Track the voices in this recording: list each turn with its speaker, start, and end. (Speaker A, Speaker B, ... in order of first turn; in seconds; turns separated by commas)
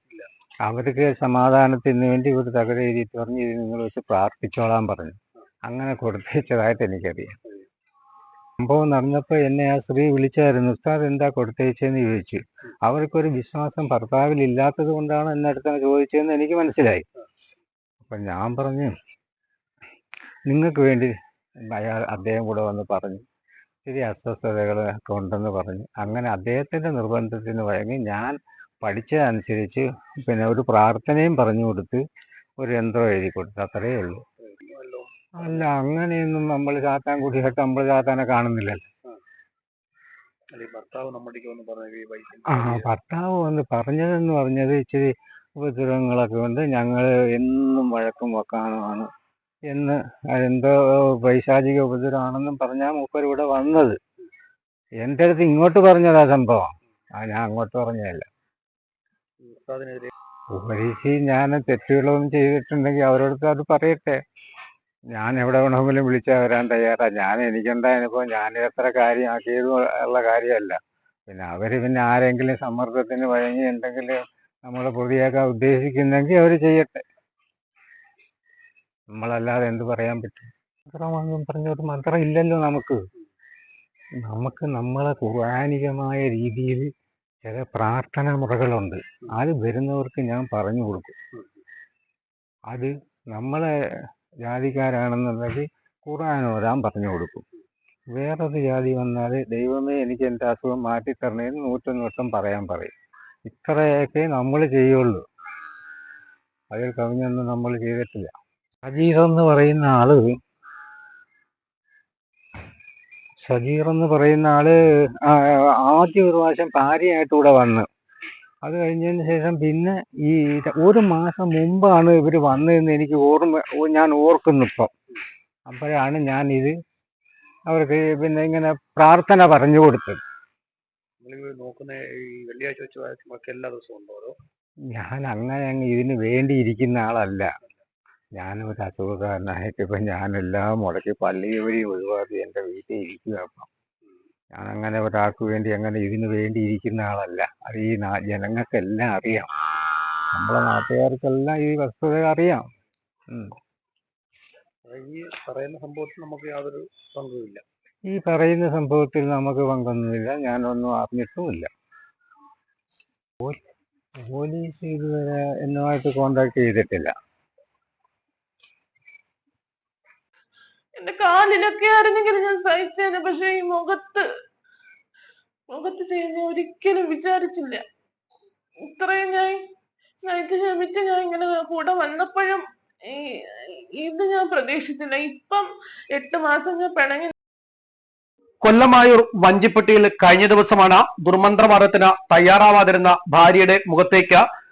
Speaker A: 0.7-7.4, Speaker A: 8.6-17.1, Speaker A: 18.0-18.9, Speaker A: 20.5-21.1, Speaker A: 21.7-23.2, Speaker A: 23.9-32.0, Speaker A: 32.6-34.2, Speaker B: 34.5-35.1, Speaker A: 35.4-38.8, Speaker B: 40.5-42.7, Speaker C: 41.7-42.4, Speaker A: 42.5-49.1, Speaker A: 49.7-54.0, Speaker A: 55.0-58.2, Speaker B: 59.4-60.0, Speaker A: 60.5-64.2, Speaker A: 65.1-77.0, Speaker A: 79.2-83.0, Speaker A: 84.2-86.9, Speaker A: 87.4-91.1, Speaker A: 92.7-93.7, Speaker A: 94.4-97.4, Speaker A: 98.1-102.9, Speaker A: 103.5-105.2, Speaker A: 106.7-108.3, Speaker A: 108.8-110.4, Speaker A: 113.4-117.9, Speaker A: 118.6-124.9, Speaker A: 125.7-126.7, Speaker A: 127.7-130.2, Speaker C: 131.2-134.4, Speaker B: 132.1-132.5, Speaker A: 134.9-137.5, Speaker A: 138.4-143.7, Speaker A: 144.5-149.5, Speaker A: 150.3-152.6, Speaker C: 154.9-157.6, Speaker A: 158.1-161.7, Speaker A: 164.2-167.1, Speaker D: 171.0-174.2, Speaker D: 175.7-177.8, Speaker D: 178.8-179.6, Speaker D: 180.2-187.3, Speaker B: 188.6-194.4